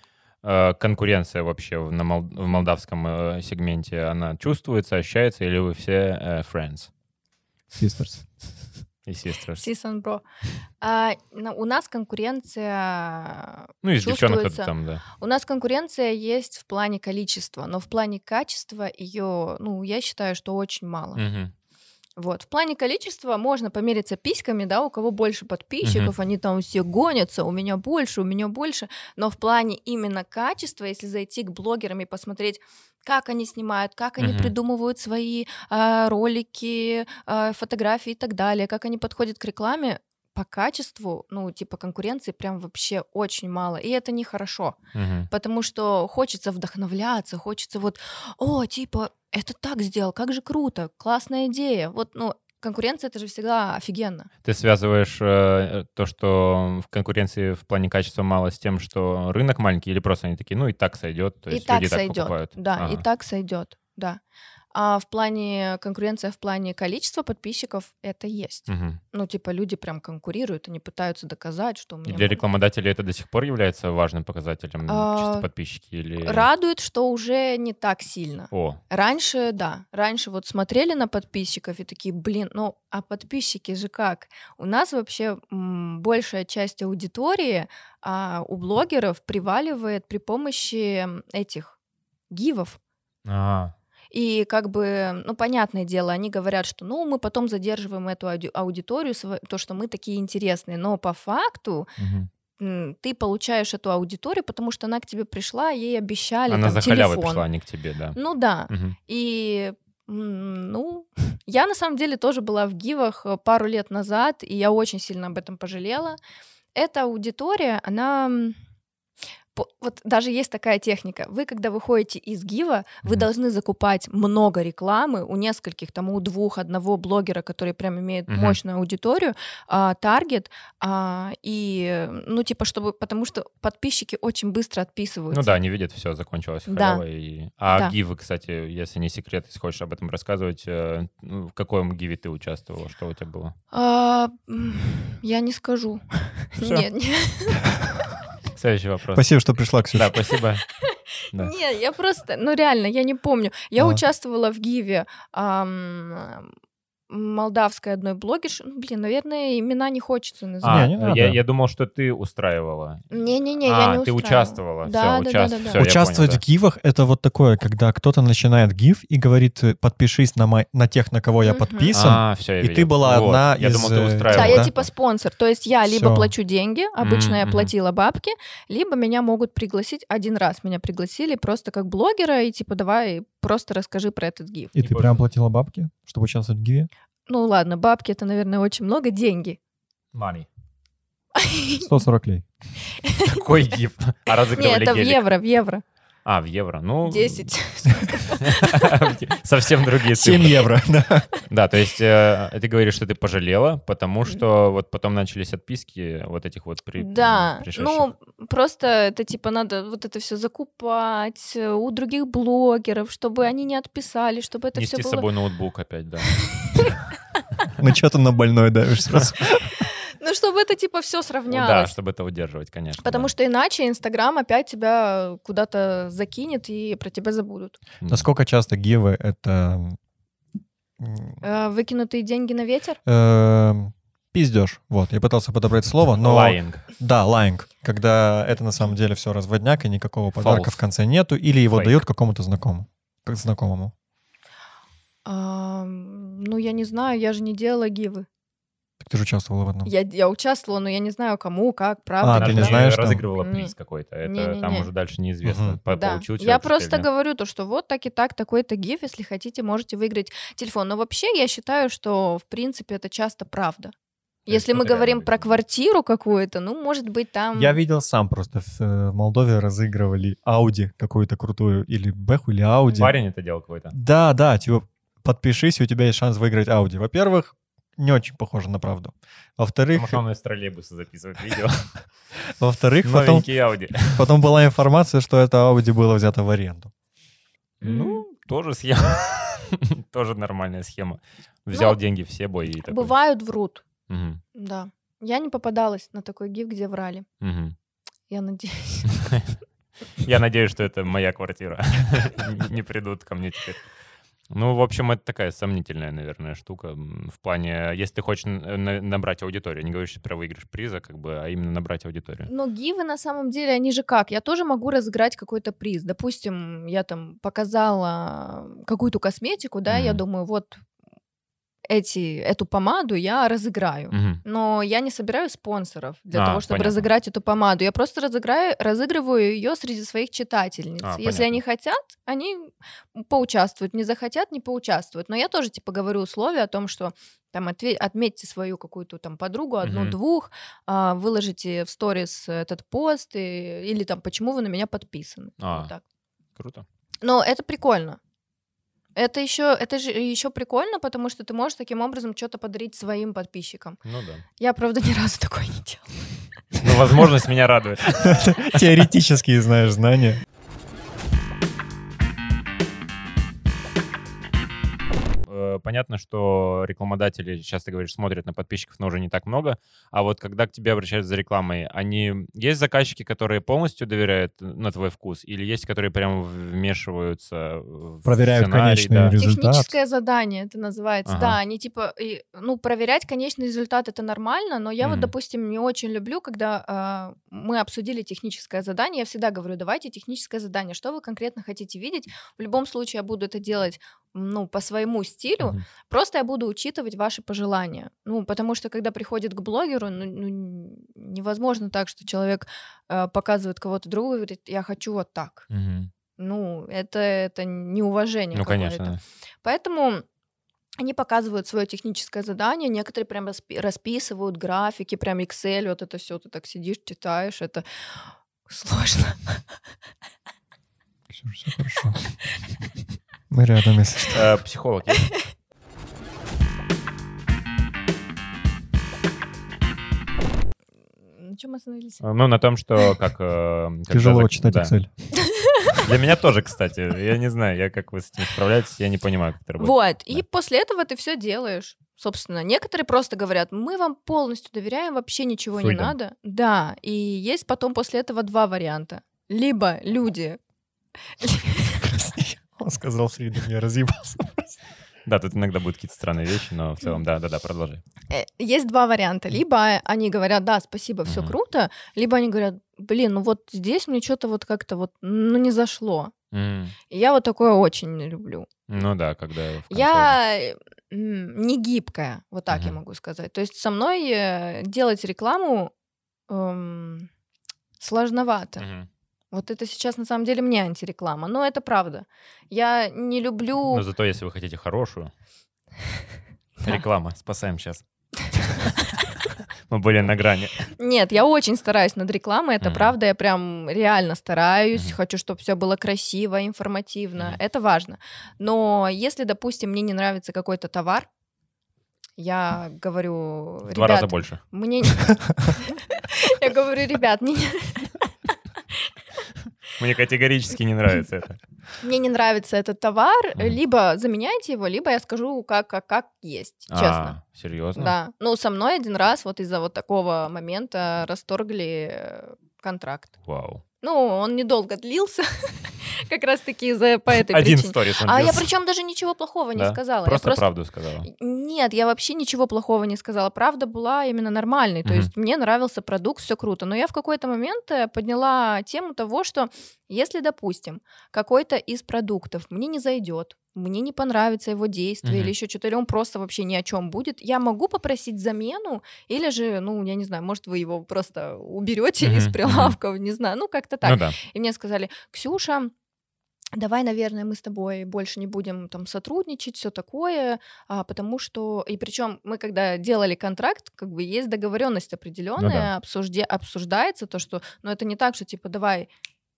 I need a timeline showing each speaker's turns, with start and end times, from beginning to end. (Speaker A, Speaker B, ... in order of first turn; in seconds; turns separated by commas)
Speaker A: 0.4-6.9, Speaker B: 7.8-8.2, Speaker A: 9.1-9.6, Speaker C: 9.6-10.2, Speaker C: 10.8-21.2, Speaker A: 13.8-15.0, Speaker A: 21.1-21.5, Speaker C: 22.2-44.8, Speaker A: 25.8-26.1, Speaker A: 34.2-34.5, Speaker A: 44.9-45.3, Speaker C: 45.3-54.3, Speaker A: 54.4-63.0, Speaker C: 61.5-64.2, Speaker C: 64.7-72.4, Speaker A: 68.7-69.0, Speaker A: 72.1-76.5, Speaker C: 74.9-75.5, Speaker C: 76.2-91.7, Speaker A: 78.5-78.8, Speaker C: 92.3-92.8, Speaker A: 93.2-93.7, Speaker C: 94.1-101.9, Speaker A: 102.0-102.3, Speaker C: 102.6-107.4, Speaker A: 106.5-108.2, Speaker C: 108.2-116.2, Speaker A: 108.7-109.0, Speaker C: 116.8-118.6, Speaker C: 119.5-135.5, Speaker A: 128.3-128.6, Speaker A: 135.3-143.5, Speaker C: 136.7-137.0, Speaker C: 143.7-147.7, Speaker A: 146.6-146.9, Speaker A: 148.5-149.3, Speaker B: 149.1-150.2, Speaker A: 149.9-150.7, Speaker C: 150.8-156.5, Speaker B: 153.8-154.0, Speaker C: 157.1-160.9, Speaker A: 160.6-163.1, Speaker B: 160.6-161.4, Speaker C: 163.1-165.8, Speaker A: 163.6-166.4, Speaker B: 165.8-174.7, Speaker C: 171.4-171.9, Speaker A: 171.9-174.9, Speaker C: 174.3-184.7, Speaker B: 175.9-176.3, Speaker A: 177.0-177.7, Speaker B: 184.8-186.9, Speaker A: 184.8-185.2, Speaker C: 187.3-189.6, Speaker A: 190.1-190.5, Speaker C: 191.3-191.9, Speaker B: 191.8-192.4, Speaker C: 192.9-193.4, Speaker A: 193.3-195.2, Speaker C: 194.5-195.8, Speaker A: 196.2-197.5, Speaker C: 197.1-198.9, Speaker A: 198.4-200.7, Speaker B: 200.1-201.3, Speaker A: 201.5-208.1, Speaker C: 207.0-215.3, Speaker A: 214.7-216.4, Speaker C: 216.5-217.0, Speaker B: 217.8-219.8, Speaker C: 219.8-221.9, Speaker A: 221.5-223.3, Speaker C: 223.0-227.8, Speaker A: 228.0-228.2, Speaker B: 228.1-230.0, Speaker B: 231.0-231.4, Speaker C: 231.4-233.0, Speaker B: 233.1-243.9, Speaker A: 236.2-236.8, Speaker A: 240.4-240.8, Speaker A: 241.7-242.0, Speaker C: 245.2-248.2, Speaker B: 249.0-249.9, Speaker C: 249.8-253.7, Speaker B: 252.2-253.2, Speaker A: 252.3-257.1, Speaker C: 254.2-254.9, Speaker B: 255.4-255.8, Speaker C: 255.9-263.9, Speaker A: 264.5-265.6, Speaker C: 264.5-267.8, Speaker B: 267.5-273.1, Speaker A: 273.0-273.9, Speaker B: 273.9-280.2, Speaker A: 279.9-281.9, Speaker B: 282.6-283.4, Speaker A: 283.0-284.2, Speaker B: 284.1-286.9, Speaker A: 287.8-293.1, Speaker C: 287.8-288.2, Speaker C: 291.7-292.0, Speaker C: 292.9-293.8, Speaker A: 294.1-294.4, Speaker C: 294.5-297.2, Speaker A: 297.4-297.7, Speaker C: 298.3-299.3, Speaker A: 299.1-299.5, Speaker A: 300.2-303.8, Speaker A: 304.5-312.5, Speaker C: 312.5-320.8, Speaker A: 319.9-320.2, Speaker C: 321.9-346.0, Speaker A: 324.1-324.4, Speaker A: 326.3-327.1, Speaker A: 331.0-331.6, Speaker A: 339.8-340.2, Speaker A: 345.6-345.9, Speaker A: 346.6-346.9, Speaker C: 347.2-348.2, Speaker C: 349.1-354.0, Speaker A: 354.0-354.4, Speaker C: 354.6-356.3, Speaker A: 356.8-359.0, Speaker B: 358.1-360.4, Speaker A: 365.4-379.4, Speaker B: 378.2-379.9, Speaker C: 379.4-405.7, Speaker A: 381.2-381.6, Speaker A: 385.0-385.3, Speaker A: 405.7-406.1, Speaker C: 406.4-410.2, Speaker A: 408.5-409.2, Speaker C: 411.0-417.8, Speaker C: 418.6-419.6, Speaker B: 421.3-422.3, Speaker B: 423.5-424.5, Speaker A: 424.3-425.3, Speaker C: 431.3-432.2, Speaker A: 432.2-434.9, Speaker B: 434.1-435.1, Speaker C: 435.4-436.0, Speaker A: 435.9-440.4, Speaker C: 439.8-450.6, Speaker A: 445.8-446.1, Speaker C: 451.4-452.1, Speaker B: 452.0-454.8, Speaker A: 455.2-458.0, Speaker C: 458.3-466.3, Speaker A: 461.2-461.5, Speaker A: 466.5-466.9, Speaker C: 467.1-468.8, Speaker A: 468.9-470.4, Speaker C: 469.9-475.9, Speaker A: 472.7-473.0, Speaker C: 476.5-477.3, Speaker C: 478.0-478.8, Speaker A: 478.8-479.1, Speaker C: 479.5-484.0, Speaker A: 483.9-485.3, Speaker A: 486.8-488.0, Speaker A: 489.9-490.9, Speaker C: 490.9-501.3, Speaker A: 492.8-493.1, Speaker C: 502.4-508.3, Speaker A: 503.9-504.6, Speaker A: 509.9-511.6, Speaker C: 512.0-517.4, Speaker A: 516.9-518.1, Speaker C: 518.0-523.3, Speaker A: 523.4-523.8, Speaker C: 524.0-530.7, Speaker A: 527.4-528.7, Speaker A: 529.8-531.3, Speaker C: 531.2-555.9, Speaker A: 535.0-535.3, Speaker A: 545.2-545.5, Speaker A: 552.2-553.0, Speaker A: 554.0-554.4, Speaker C: 556.8-569.1, Speaker A: 565.6-565.9